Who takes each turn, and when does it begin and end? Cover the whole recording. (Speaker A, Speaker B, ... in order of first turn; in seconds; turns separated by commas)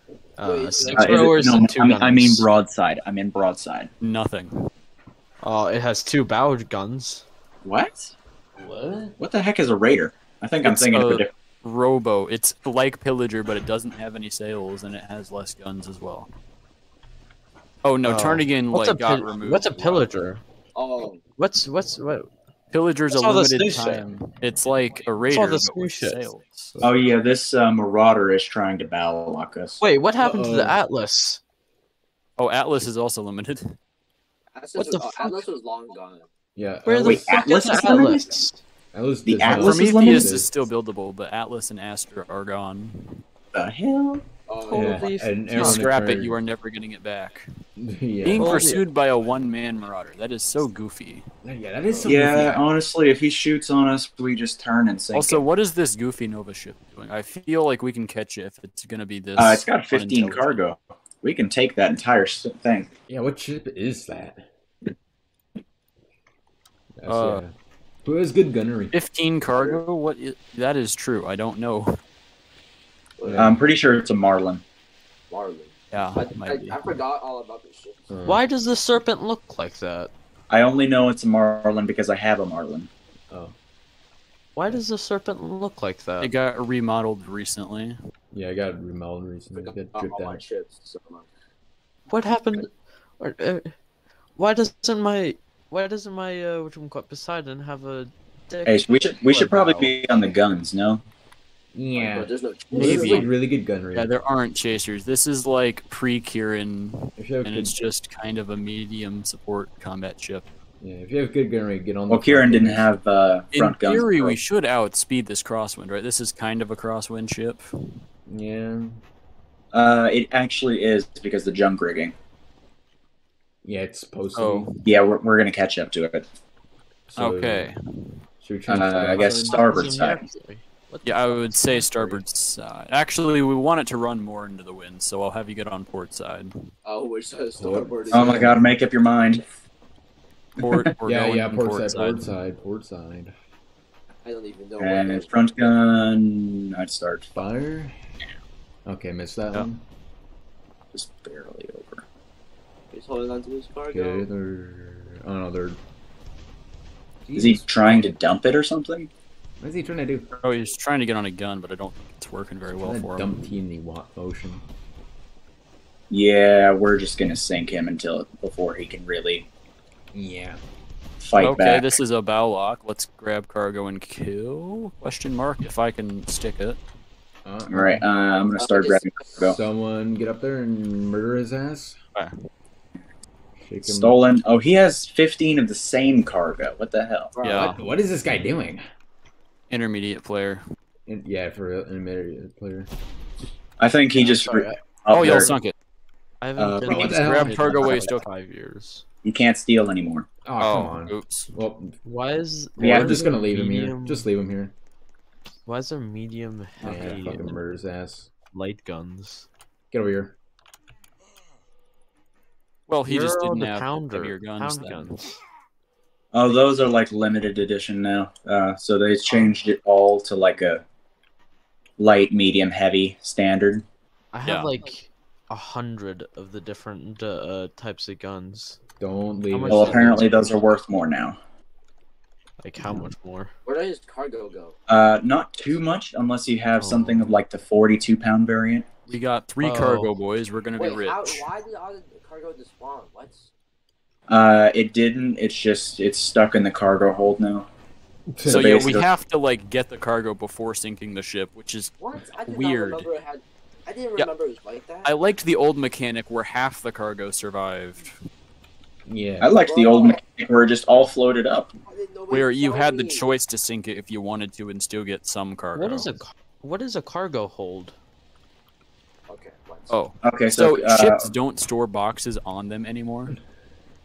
Speaker A: 0.4-2.5, Speaker B: 0.4-1.6, Speaker C: 0.9-3.9, Speaker D: 4.0-4.7, Speaker A: 5.4-7.3, Speaker C: 7.7-8.2, Speaker A: 8.6-9.1, Speaker C: 9.2-11.3, Speaker D: 10.6-16.3, Speaker D: 17.8-20.1, Speaker A: 18.0-20.4, Speaker B: 20.8-21.2, Speaker A: 21.4-22.3, Speaker D: 22.7-26.8, Speaker A: 23.1-24.1, Speaker A: 25.3-26.2, Speaker C: 26.8-29.8, Speaker A: 29.8-31.4, Speaker E: 30.2-30.8, Speaker D: 32.4-33.8, Speaker B: 34.5-36.3, Speaker A: 34.8-35.5, Speaker E: 36.6-37.5, Speaker A: 36.9-38.6, Speaker C: 37.0-38.3, Speaker E: 38.9-40.5, Speaker C: 39.2-40.4, Speaker D: 39.5-43.2, Speaker C: 43.5-44.2, Speaker B: 44.5-45.1, Speaker A: 44.6-45.9, Speaker E: 44.7-46.4, Speaker D: 45.5-47.5, Speaker E: 47.8-48.7, Speaker D: 48.2-51.3, Speaker A: 48.4-48.8, Speaker E: 51.4-52.6, Speaker C: 52.0-55.4, Speaker D: 55.1-60.5, Speaker C: 59.4-62.9, Speaker E: 63.1-64.5, Speaker E: 67.0-67.5, Speaker D: 67.1-67.4, Speaker E: 68.0-69.0, Speaker D: 68.9-72.0, Speaker B: 69.5-69.8, Speaker B: 73.2-73.5, Speaker E: 73.2-73.6, Speaker C: 73.3-74.6, Speaker B: 75.3-78.1, Speaker D: 75.9-76.8, Speaker E: 78.1-78.5, Speaker A: 78.2-80.1, Speaker C: 80.5-82.9, Speaker E: 83.3-83.6, Speaker A: 84.6-86.3, Speaker D: 86.2-88.0, Speaker E: 88.3-90.4, Speaker B: 89.6-91.3, Speaker A: 92.1-93.7, Speaker A: 94.4-99.9, Speaker C: 98.7-101.0, Speaker E: 101.7-104.1, Speaker B: 102.0-103.3, Speaker D: 102.7-103.3, Speaker D: 103.9-110.5, Speaker E: 107.2-107.9, Speaker E: 110.8-112.9, Speaker C: 112.1-114.4, Speaker D: 113.5-117.6, Speaker E: 118.3-119.0, Speaker C: 119.7-122.2, Speaker E: 123.6-124.7, Speaker D: 124.4-124.9, Speaker C: 124.8-126.3, Speaker E: 127.1-127.7, Speaker D: 127.2-128.1, Speaker E: 128.4-129.7, Speaker C: 128.7-130.3, Speaker A: 129.2-132.2, Speaker D: 131.0-136.5, Speaker B: 136.8-138.6, Speaker E: 137.6-138.6, Speaker C: 138.1-139.4, Speaker D: 140.6-142.2, Speaker E: 141.1-143.3, Speaker B: 144.2-145.3, Speaker C: 144.8-147.3, Speaker E: 147.3-148.0, Speaker E: 148.9-149.8, Speaker C: 150.9-152.1, Speaker B: 152.9-154.3, Speaker E: 153.9-155.8, Speaker E: 157.3-158.1, Speaker C: 157.3-159.1, Speaker E: 159.6-160.3, Speaker D: 160.4-163.4, Speaker E: 162.8-164.6, Speaker C: 166.1-169.5, Speaker E: 170.1-170.6, Speaker C: 171.2-172.0, Speaker D: 171.4-176.8, Speaker E: 177.4-178.1, Speaker C: 177.7-179.6, Speaker B: 178.6-179.5, Speaker E: 179.4-182.0, Speaker E: 183.6-184.2, Speaker C: 183.8-187.4, Speaker B: 187.4-187.8, Speaker D: 187.4-187.8, Speaker E: 187.4-188.8, Speaker D: 189.7-190.6, Speaker E: 191.1-192.9, Speaker C: 193.8-195.5, Speaker A: 194.1-195.5, Speaker D: 195.1-195.8, Speaker A: 196.4-199.1, Speaker C: 196.6-197.2, Speaker E: 196.9-197.7, Speaker D: 196.9-198.3, Speaker C: 199.2-200.3, Speaker E: 200.4-201.9, Speaker D: 200.6-201.5, Speaker A: 202.1-204.3, Speaker C: 202.8-203.2, Speaker E: 202.8-204.8, Speaker A: 205.7-207.6, Speaker E: 206.8-208.3, Speaker D: 206.9-207.3, Speaker C: 206.9-207.2, Speaker A: 208.5-209.5, Speaker E: 209.9-210.4, Speaker D: 212.9-215.1, Speaker A: 213.1-215.3, Speaker C: 216.3-220.8, Speaker C: 222.0-223.8, Speaker A: 224.3-228.8, Speaker D: 224.4-224.7, Speaker E: 229.0-230.4, Speaker A: 229.5-230.8, Speaker C: 229.7-231.4, Speaker A: 232.6-233.5, Speaker B: 233.7-234.8, Speaker C: 234.9-238.9, Speaker A: 236.8-237.4, Speaker D: 239.1-241.5, Speaker A: 239.6-240.1, Speaker B: 240.8-243.5, Speaker C: 244.3-247.7, Speaker E: 248.3-248.8, Speaker D: 248.4-253.1, Speaker C: 248.5-249.1, Speaker B: 252.0-255.1, Speaker D: 255.0-258.2, Speaker E: 259.1-259.6, Speaker C: 259.4-261.7, Speaker B: 259.6-260.2, Speaker B: 261.9-263.2, Speaker D: 262.3-266.1, Speaker A: 265.8-268.0, Speaker B: 269.3-269.9, Speaker D: 269.9-273.4, Speaker C: 270.2-271.3